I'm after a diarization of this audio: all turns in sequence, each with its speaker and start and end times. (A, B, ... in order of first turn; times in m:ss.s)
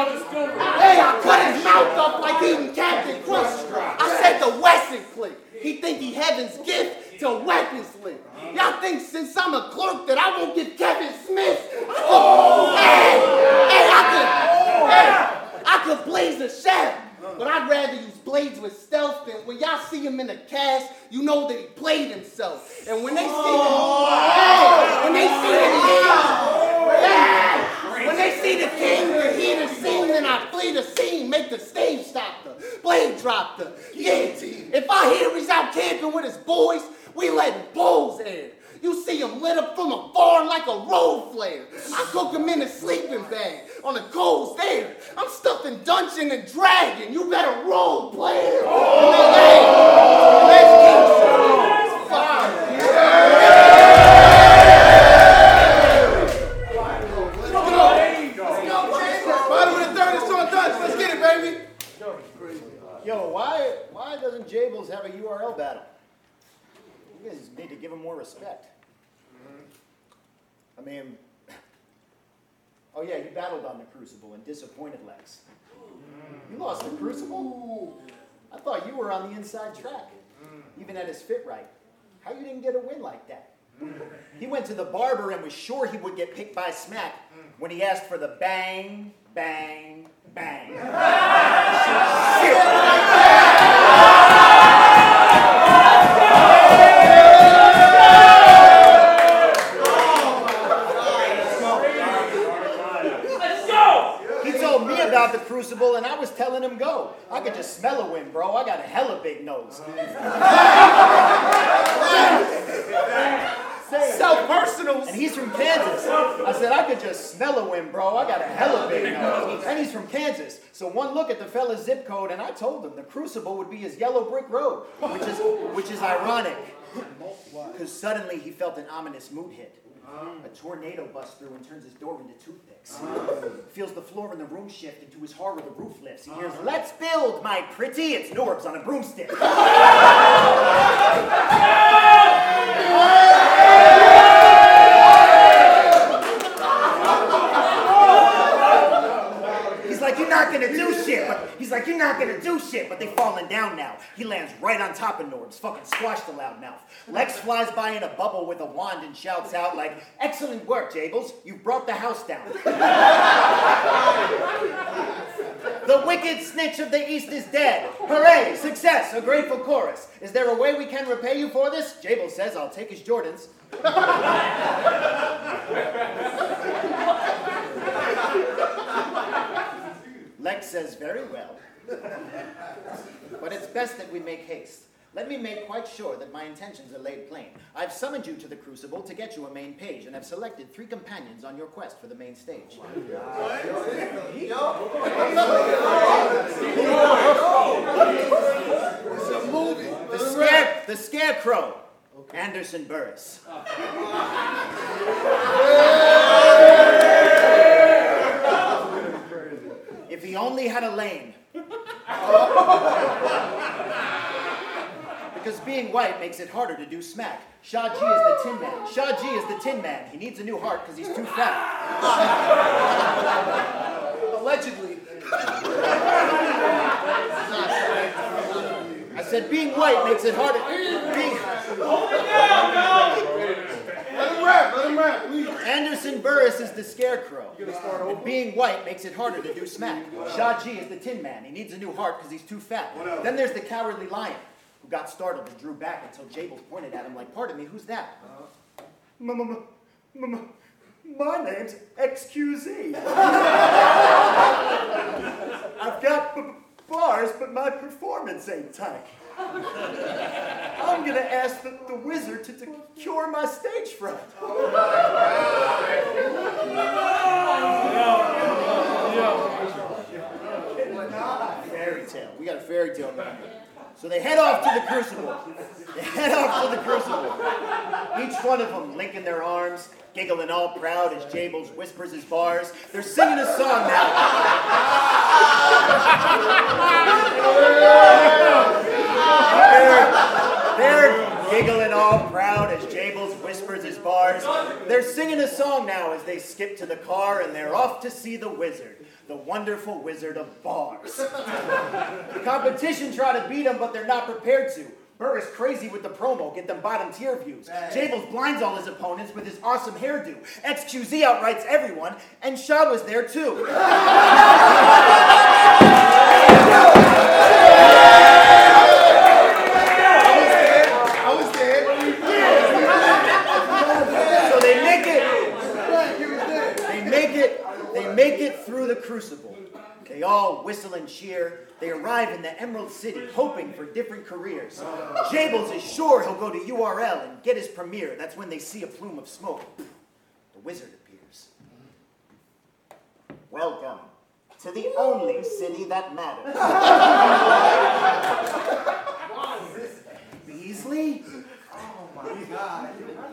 0:00.5-0:53.4 A
0:57.3-1:01.7 B
1:03.0-1:05.9 C
1:07.1-1:08.7 C
1:10.8-1:11.6 C
1:12.9-1:15.4 C
1:16.4-1:17.6 C
1:18.5-1:20.2 C
1:20.7-1:21.7 C
1:22.2-1:23.5 C
1:24.4-1:31.0 C
1:31.9-1:32.9 C
1:44.4-1:50.0 C
1:53.8-1:54.4 C
1:54.1-1:55.2 B
1:55.0-2:06.8 C
2:07.5-2:09.8 C
2:10.4-2:19.5 C
2:29.8-2:42.9 C
2:45.8-2:53.5 C
3:00.4-3:01.6 C
3:03.4-3:12.8 C
3:16.6-3:17.2 B
3:19.1-3:20.5 B
3:20.1-3:23.4 C
3:30.1-3:31.4 C
3:35.3-3:41.7 C
3:44.2-3:45.5 B
3:47.4-3:47.9 B
3:47.6-3:48.5 A
3:49.1-3:51.6 C
3:52.4-3:55.6 B
3:55.6-4:08.2 C
4:09.2-4:10.4 C
4:11.0-4:14.1 C
4:15.6-4:19.1 C
4:20.8-4:24.4 C
4:31.6-4:44.8 C
4:47.4-4:48.7 C
4:49.3-5:13.8 C
5:20.2-5:23.5 B
5:23.7-5:25.5 C
5:25.8-5:26.8 B
5:26.8-5:39.9 C
5:40.5-5:41.5 C
5:43.5-5:47.2 C
5:50.4-5:51.2 C